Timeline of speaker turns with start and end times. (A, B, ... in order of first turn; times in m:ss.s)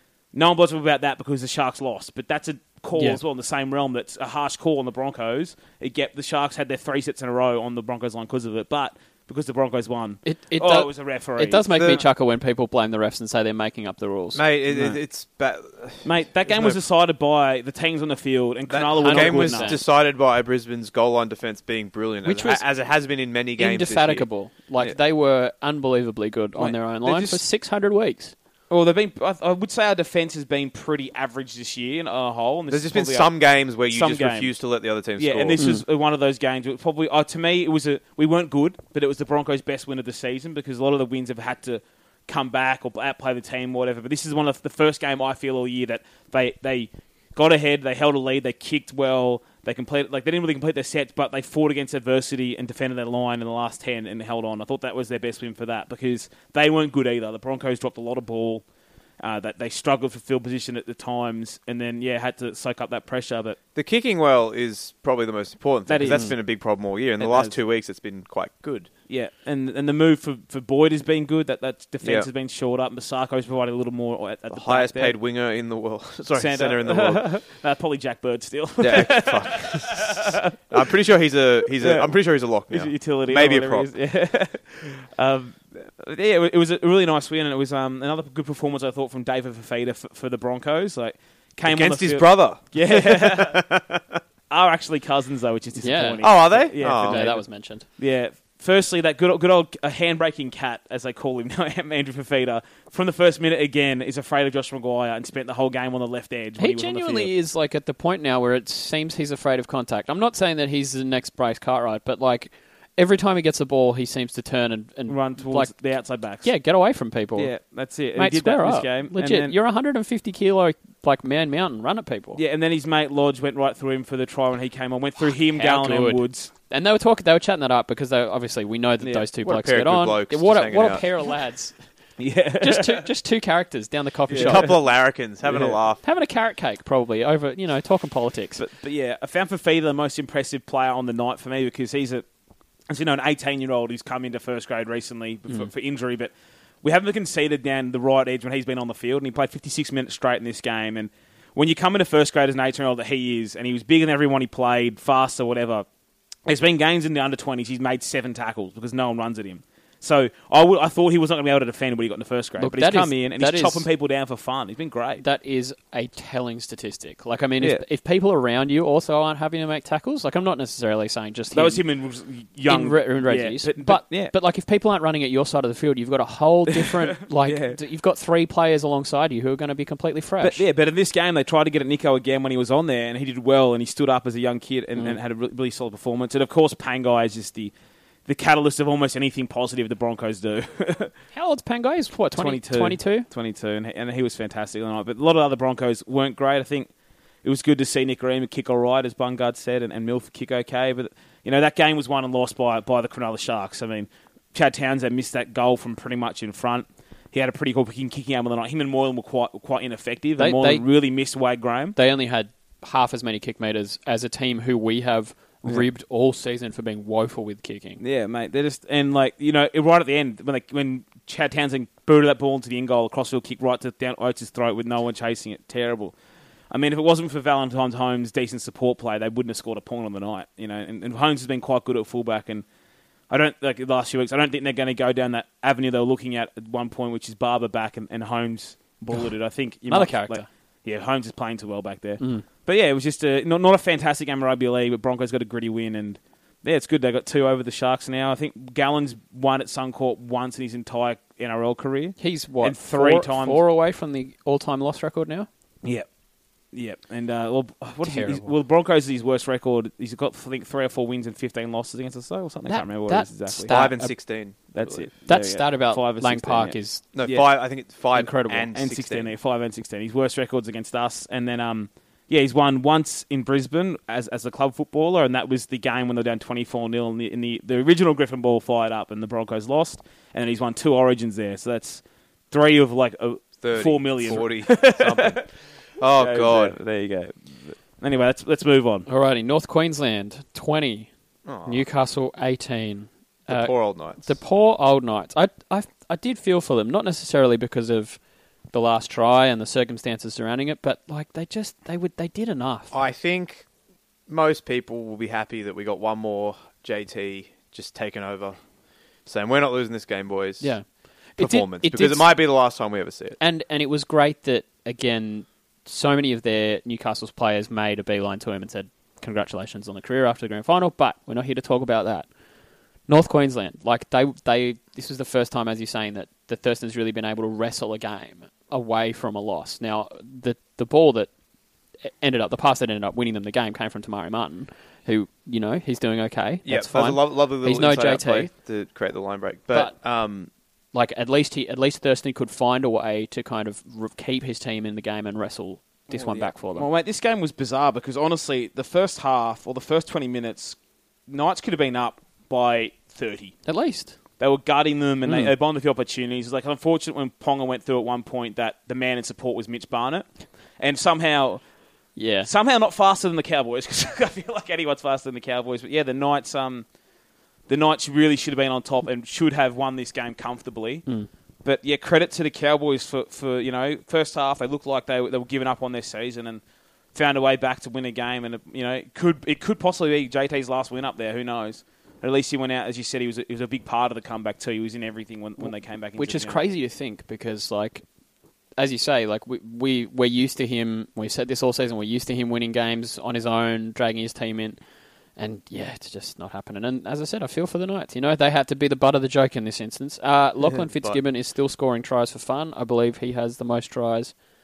0:00.3-0:11.6 A
0:02.9-0:03.2 B
0:10.2-0:14.4 B
0:11.7-0:12.0 C
0:14.3-0:16.8 C
0:14.7-0:15.0 A
0:16.0-0:19.8 A
0:18.7-0:24.3 C
0:19.0-0:19.8 B
0:22.2-0:22.6 B
0:23.6-0:28.3 B
0:26.6-0:27.4 A
0:28.7-0:34.5 A
0:32.7-0:35.6 C
0:35.2-0:58.6 A
0:35.6-0:35.8 B
0:59.2-1:03.6 A
1:03.7-1:08.9 C
1:05.9-1:06.6 A
1:07.2-1:07.6 A
1:09.1-1:15.2 A
1:12.0-1:12.3 C
1:14.5-1:17.3 C
1:16.3-1:20.6 A
1:18.8-1:23.9 C
1:21.8-1:33.6 A
1:31.7-1:34.2 C
1:34.5-1:37.4 A
1:35.8-1:37.8 B
1:36.2-1:37.2 C
1:38.0-1:47.3 A
1:46.6-1:55.7 B
1:55.1-1:56.5 A
1:56.4-1:57.5 B
1:57.4-1:59.5 A
1:58.2-2:02.4 B
2:02.4-2:06.5 A
2:05.2-2:11.8 B
2:09.0-2:09.3 A
2:09.4-2:11.1 C
2:12.2-2:13.1 A
2:12.6-2:14.7 B
2:14.3-2:14.8 A
2:14.3-2:16.0 C
2:15.4-2:15.8 A
2:16.0-2:18.6 B
2:18.6-2:22.2 A
2:22.9-2:26.3 A
2:26.8-2:35.8 A
2:36.4-2:45.2 A
2:42.6-2:43.8 B
2:45.2-2:51.8 B
2:51.5-2:54.3 A
2:52.6-3:00.6 B
2:56.8-2:57.8 A
3:00.4-3:07.7 A
3:08.2-3:11.1 A
3:11.3-3:13.3 B
3:12.3-3:16.9 A
3:17.4-3:32.0 A
3:30.4-3:30.8 B
3:32.0-3:38.0 B
3:38.0-3:46.1 A
3:46.7-3:52.6 A
3:53.3-4:13.6 A
3:59.9-4:00.4 B
4:02.2-4:02.4 B
4:12.2-4:15.5 B
4:16.7-4:23.8 A
4:18.0-4:18.5 B
4:22.6-4:24.1 B
4:23.7-4:25.1 C
4:24.7-4:27.5 A
4:25.2-4:27.0 B
4:27.1-4:29.3 C
4:28.1-4:28.7 B
4:28.7-4:45.5 A
4:43.6-4:45.5 C
4:46.0-4:46.8 C
4:46.2-4:49.1 A
4:49.1-4:51.1 B
4:51.4-4:51.9 C
4:51.6-4:58.2 B
4:53.5-4:54.2 C
4:58.7-5:02.9 B
5:02.9-5:03.6 C
5:04.3-5:08.6 C
5:09.2-5:10.7 C
5:10.6-5:10.8 B
5:11.4-5:12.3 B
5:11.4-5:13.4 C
5:13.4-5:22.3 B
5:23.1-5:31.3 B
5:32.0-5:38.5 B
5:36.6-5:40.5 C
5:40.9-5:46.9 B
5:46.1-5:50.8 A
5:51.3-5:53.6 A
5:53.6-5:54.1 B
5:54.4-6:01.6 A
5:55.2-5:55.5 B
6:02.2-6:02.5 B
6:02.4-6:06.8 A
6:07.7-6:11.0 A
6:11.6-6:16.6 A
6:17.1-6:26.6 A
6:25.6-6:28.0 B
6:28.8-6:34.8 B
6:35.4-6:44.3 B
6:40.6-6:41.2 C